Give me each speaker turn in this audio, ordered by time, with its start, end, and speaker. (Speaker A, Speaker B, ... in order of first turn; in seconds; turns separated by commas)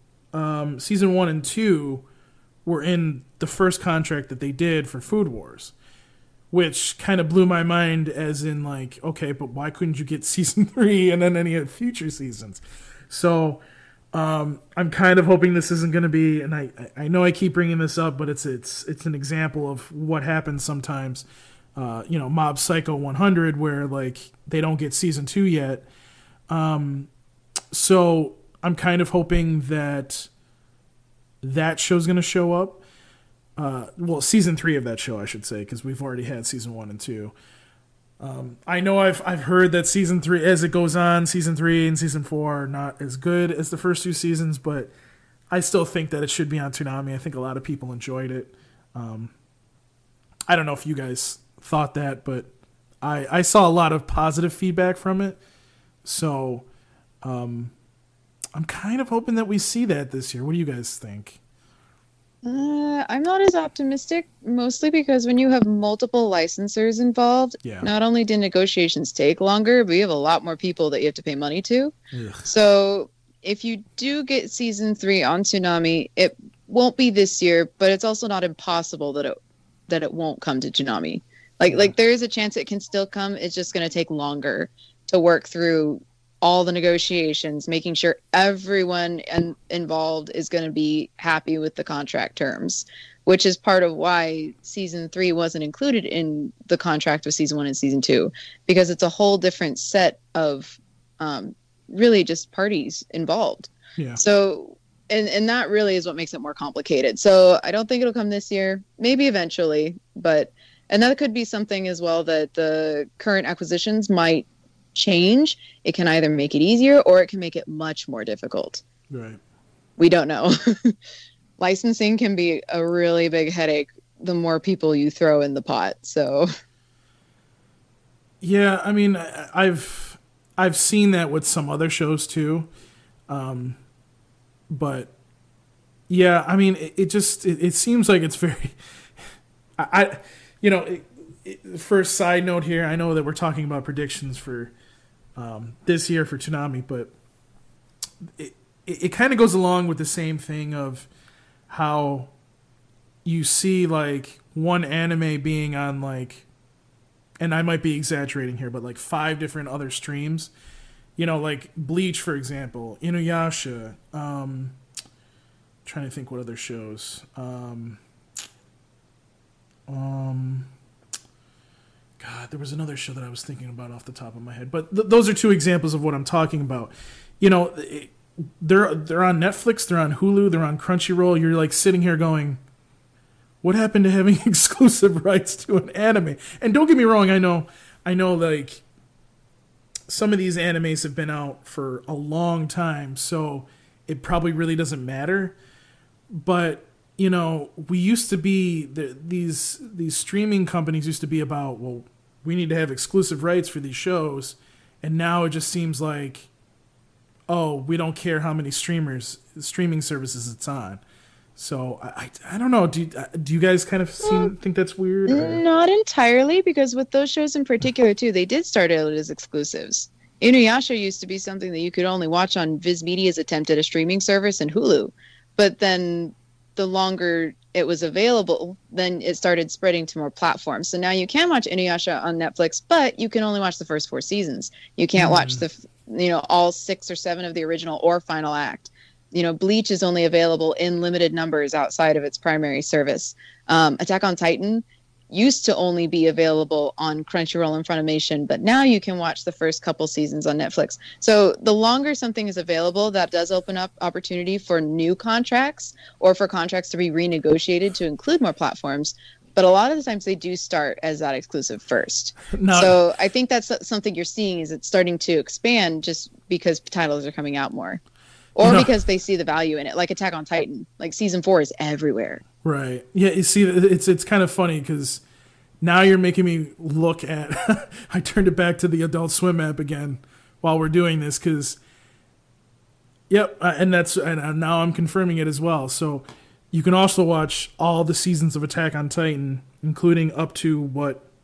Speaker A: 0.3-2.0, Speaker A: 2.6-5.7, Speaker A: 6.5-25.9, Speaker A: 26.5-27.1, Speaker A: 27.7-30.3, Speaker A: 31.4-32.8, Speaker A: 33.5-37.3, Speaker A: 38.2-44.9, Speaker A: 45.5-49.3, Speaker A: 50.5-55.4, Speaker A: 56.0-56.6, Speaker A: 57.2-57.7, Speaker A: 58.5-61.4, Speaker B: 62.4-71.9, Speaker A: 72.1-72.5, Speaker B: 72.4-79.3, Speaker B: 79.9-118.8, Speaker A: 81.7-81.9, Speaker A: 119.1-119.4, Speaker B: 120.0-120.9, Speaker B: 121.6-126.5, Speaker A: 128.4-132.7, Speaker A: 133.3-133.8, Speaker A: 134.7-135.1, Speaker A: 136.1-139.2, Speaker A: 139.8-144.7, Speaker A: 145.3-147.1, Speaker A: 148.3-151.1, Speaker A: 151.7-152.3, Speaker A: 153.2-156.4, Speaker A: 157.4-160.5, Speaker A: 161.2-164.8, Speaker A: 165.8-168.0, Speaker A: 169.9-170.7, Speaker A: 172.2-182.6, Speaker A: 183.6-188.8, Speaker A: 190.1-195.6, Speaker A: 196.3-206.5, Speaker A: 207.5-211.0, Speaker A: 211.6-215.6, Speaker B: 215.3-268.0, Speaker A: 235.2-235.6, Speaker A: 262.4-263.0, Speaker B: 268.6-272.4, Speaker A: 268.6-268.9, Speaker A: 272.6-275.2, Speaker A: 275.8-281.8, Speaker A: 283.3-291.3